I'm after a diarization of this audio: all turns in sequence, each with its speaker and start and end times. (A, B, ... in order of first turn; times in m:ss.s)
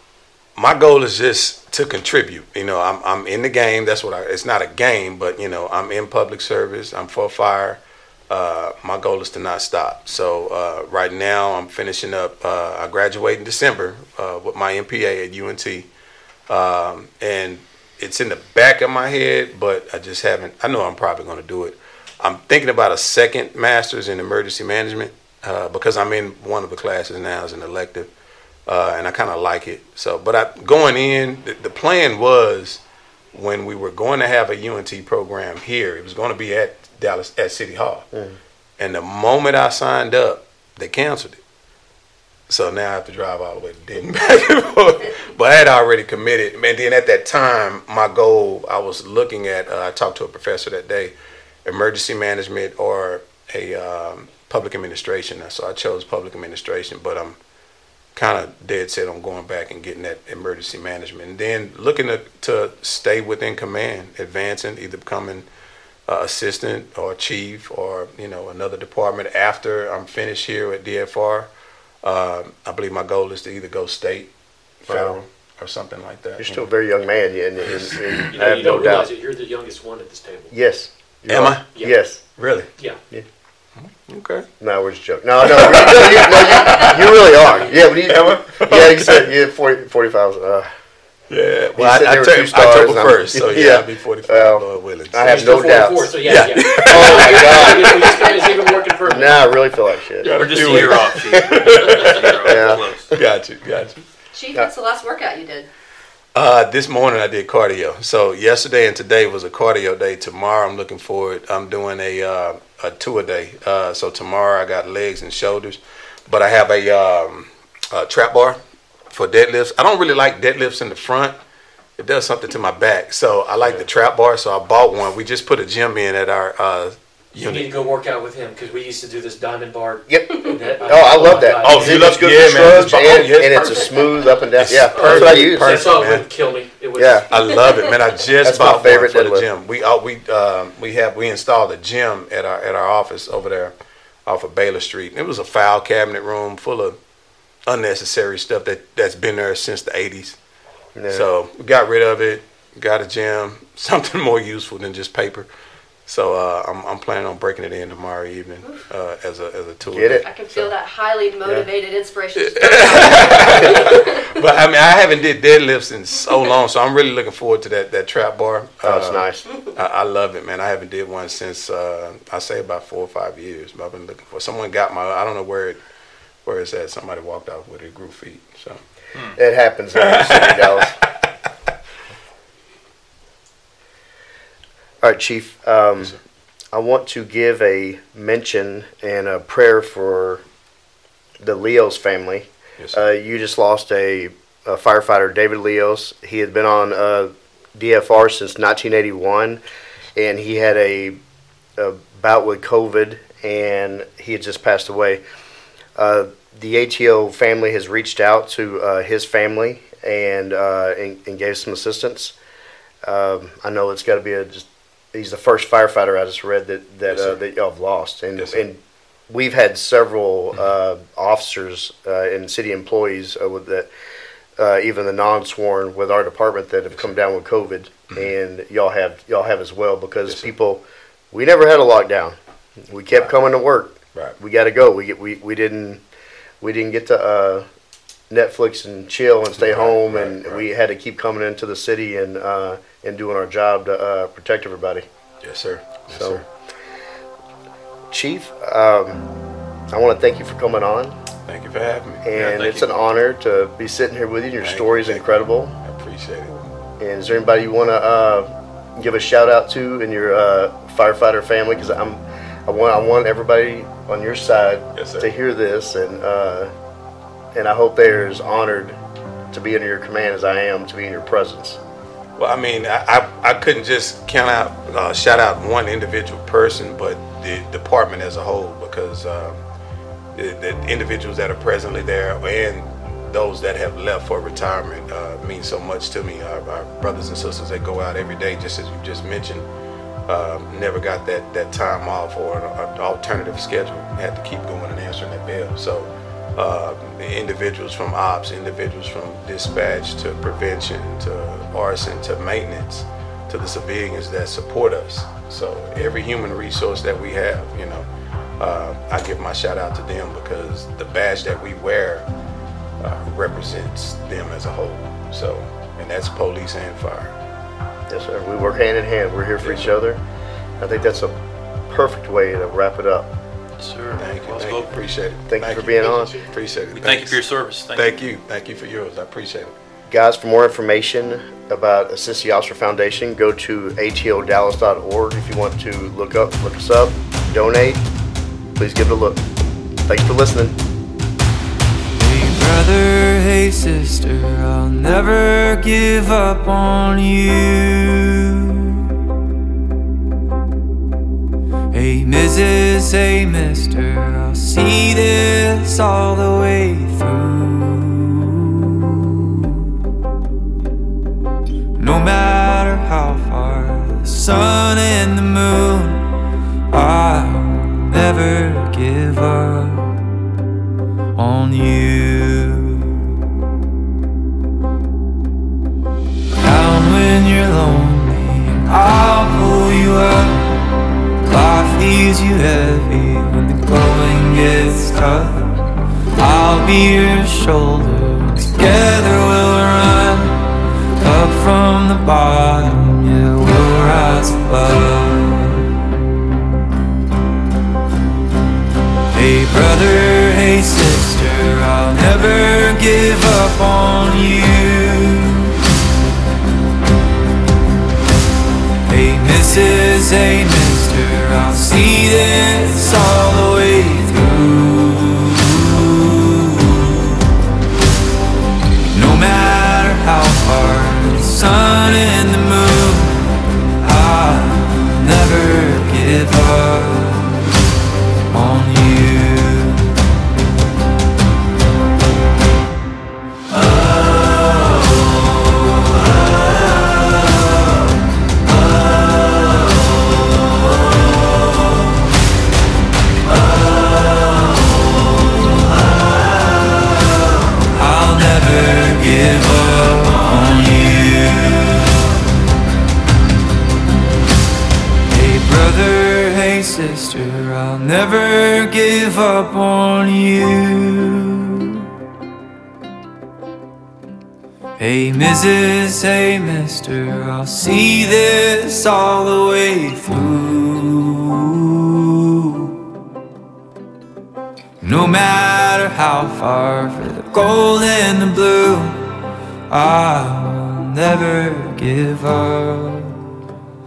0:00.6-0:15.9 A
0:16.5-0:28.1 A
0:28.7-0:32.8 A
0:33.3-0:38.1 A
0:38.1-0:38.4 B
0:38.8-0:41.4 A
0:42.5-0:57.4 A
0:58.1-1:05.5 A
1:06.1-1:11.5 A
1:12.0-1:14.3 A
1:14.8-1:16.7 A
1:14.8-1:15.2 B
1:16.4-1:19.1 B
1:17.6-1:18.2 A
1:18.2-1:20.5 C
1:20.5-1:22.2 B
1:21.3-1:21.7 A
1:22.4-1:22.7 A
1:23.8-1:24.5 A
1:24.6-1:30.7 B
1:25.4-1:27.0 A
1:28.0-1:29.3 A
1:31.3-1:37.4 A
1:31.8-1:38.2 B
1:35.2-1:39.5 C
1:37.9-1:38.8 D
1:39.0-1:40.3 B
1:40.2-1:40.9 C
1:40.2-1:42.3 A
1:40.3-1:43.1 E
1:41.8-1:42.2 C
1:42.4-1:43.2 B
1:43.1-1:44.0 A
1:44.3-1:45.7 D
1:46.3-2:01.4 A
2:02.0-2:07.7 A
2:07.4-2:13.9 C
2:10.1-2:15.9 B
2:11.6-2:13.8 A
2:13.6-2:14.2 D
2:14.6-2:16.2 A
2:14.9-2:17.6 C
2:16.9-2:17.3 B
2:17.3-2:23.7 A
2:18.4-2:19.5 B
2:24.2-2:27.0 A
2:27.7-2:30.4 A
2:31.0-2:31.3 B
2:31.1-2:35.5 A
2:36.1-2:40.7 A
2:39.9-2:40.2 B
2:40.2-2:44.3 D
2:42.4-2:55.8 A
2:48.8-2:49.4 B
2:56.4-2:58.8 A
2:59.3-3:01.0 B
3:00.0-3:01.2 A
3:05.0-3:06.2 B
3:06.7-3:10.4 B
3:11.4-3:19.6 B
3:12.8-3:13.0 A
3:20.2-3:21.2 B
3:21.8-3:25.2 B
3:26.0-3:32.3 B
3:33.0-3:43.9 B
3:37.1-3:37.4 A
3:38.4-3:38.6 A
3:44.6-3:52.4 B
3:50.3-3:50.5 A
3:52.9-3:56.0 B
3:56.6-3:57.6 B
3:58.3-4:05.0 B
3:59.5-4:00.6 A
4:05.4-4:06.4 A
4:06.1-4:06.4 B
4:08.1-4:09.3 B
4:09.9-4:11.2 B
4:11.4-4:12.8 A
4:12.2-4:15.8 B
4:12.4-4:12.8 E
4:14.6-4:15.2 A
4:15.8-4:16.7 A
4:17.0-4:26.7 B
4:24.9-4:25.3 A
4:27.5-4:29.0 B
4:29.5-4:31.8 B
4:32.4-4:39.6 A
4:40.3-4:49.6 A
4:50.3-5:08.1 A
5:08.6-5:12.3 A
5:13.0-5:17.3 A
5:18.1-5:20.2 B
5:19.6-5:20.0 A
5:20.8-5:21.4 B
5:21.9-5:23.3 B
5:23.8-5:24.9 E
5:24.2-5:27.4 A
5:25.5-5:26.4 B
5:26.9-5:28.1 E
5:27.9-5:29.7 A
5:30.1-5:38.0 B
5:38.8-5:39.4 B
5:40.1-5:40.8 B
5:42.2-5:49.1 F
5:51.9-5:59.8 F
6:02.0-6:06.3 F
6:06.9-6:10.1 F
6:11.4-6:13.2 F
6:16.6-6:20.7 F
6:21.4-6:30.7 F
6:31.2-6:35.9 F
6:39.3-6:45.7 F
6:49.1-6:57.4 F
6:59.1-7:03.5 F
7:04.0-7:07.6 F
7:08.5-7:10.1 F
7:13.8-7:17.4 F
7:19.6-7:20.5 F
7:21.1-7:22.0 F
7:23.5-7:25.0 F
7:27.8-7:32.4 F
7:35.3-7:42.0 F
7:45.0-7:53.0 F
7:55.0-7:59.3 F
7:59.9-8:03.4 F